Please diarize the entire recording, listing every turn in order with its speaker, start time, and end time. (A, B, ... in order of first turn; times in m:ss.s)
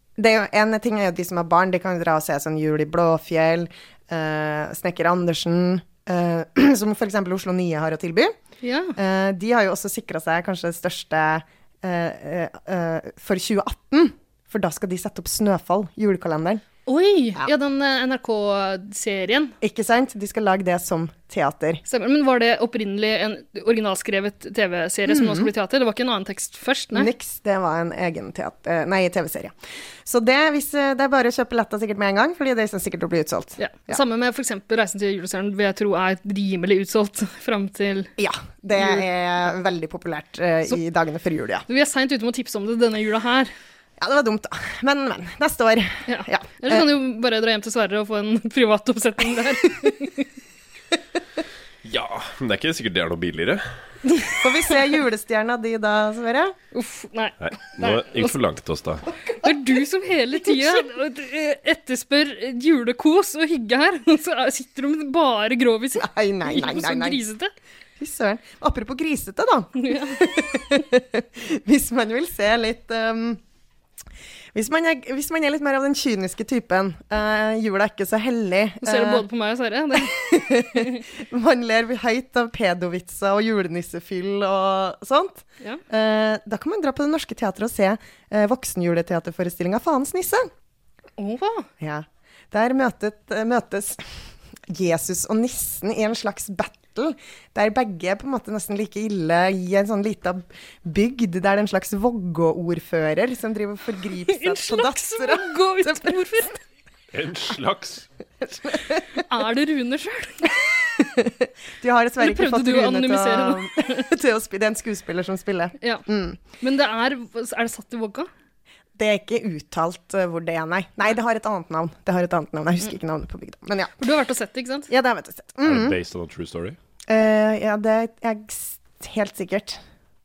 0:00.2-0:08.3 A
0:08.6-0:09.0 B
0:09.0-0:16.6 A
0:16.9-0:19.6 B
0:19.6-0:21.8 A
0:21.9-0:27.1 B
0:25.1-0:25.5 A
0:26.9-0:34.0 A
0:33.6-0:38.1 B
0:38.2-0:41.6 A
0:38.8-0:39.0 B
0:41.7-0:43.5 B
0:44.0-0:46.9 A
0:46.1-0:50.3 B
0:51.8-0:53.8 C
0:54.0-0:54.4 B
0:54.4-0:56.6 A
0:56.7-0:58.4 B
0:57.4-0:59.1 C
0:59.2-0:59.5 A
0:59.4-1:07.5 B
1:06.0-1:07.2 A
1:08.0-1:13.4 A
1:09.8-1:10.5 B
1:14.5-1:19.3 A
1:18.8-1:21.0 B
1:20.0-1:30.5 A
1:31.2-1:31.7 B
1:31.8-1:46.4 A
1:44.2-1:46.6 B
1:47.1-1:48.1 C
1:48.4-1:49.2 A
1:49.2-1:50.7 B
1:50.8-1:56.4 A
1:52.2-1:54.1 B
1:56.6-1:58.3 B
1:59.0-2:04.0 A
2:04.0-2:04.9 B
2:04.9-2:06.0 A
2:05.6-2:06.8 C
2:07.1-2:09.8 A